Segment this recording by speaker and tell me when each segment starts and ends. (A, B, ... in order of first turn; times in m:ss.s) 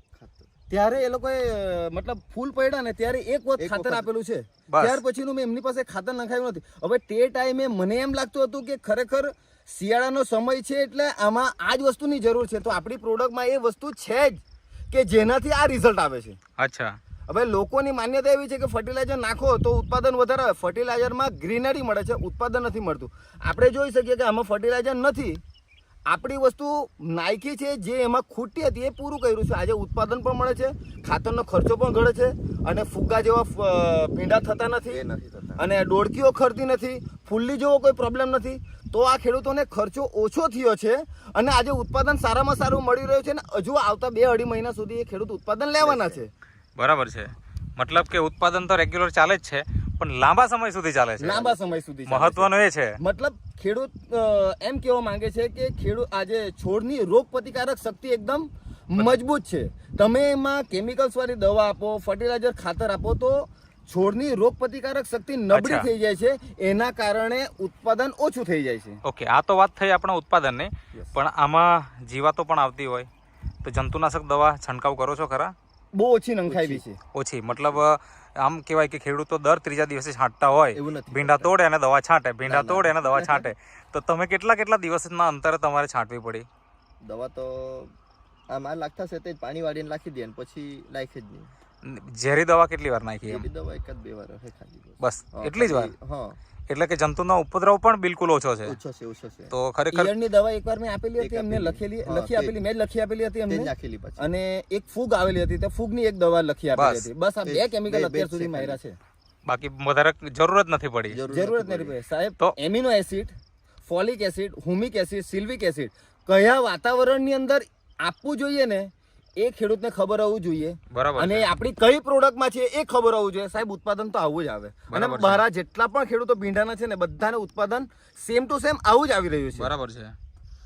0:00.1-0:00.6 A
0:00.7-0:16.4 B
0:03.6-0:04.1 A
0:04.7-0:05.0 C
0:16.6-0:17.0 C
0:17.3-0:25.4 B
0:26.1-0:35.0 B
0:34.8-0:35.6 A
0:35.6-0:46.3 B
0:45.8-0:46.2 A
0:46.8-0:53.0 C
0:51.2-1:09.0 B
1:05.5-1:05.9 C
1:09.0-1:13.1 C
1:13.6-1:15.5 C
1:15.9-1:17.0 B
1:16.5-1:16.8 A
1:17.1-1:26.4 C
1:17.5-1:17.8 A
1:20.7-1:21.5 A
1:22.4-1:23.5 A
1:27.0-1:27.9 A
1:28.5-1:31.5 A
1:31.8-1:33.4 C
1:33.2-1:36.4 A
1:35.0-1:35.9 C
1:36.7-1:38.8 C
1:38.6-1:39.5 A
1:39.5-1:40.1 C
1:39.9-1:49.0 B
1:41.2-1:42.6 A
1:43.4-1:44.2 A
1:46.8-1:47.1 C
1:47.4-1:48.8 A
1:49.4-1:51.2 C
1:51.1-1:51.9 A
1:51.3-1:53.3 B
1:53.8-2:09.7 B
2:00.9-2:01.5 C
2:04.9-2:05.4 C
2:09.5-2:10.1 C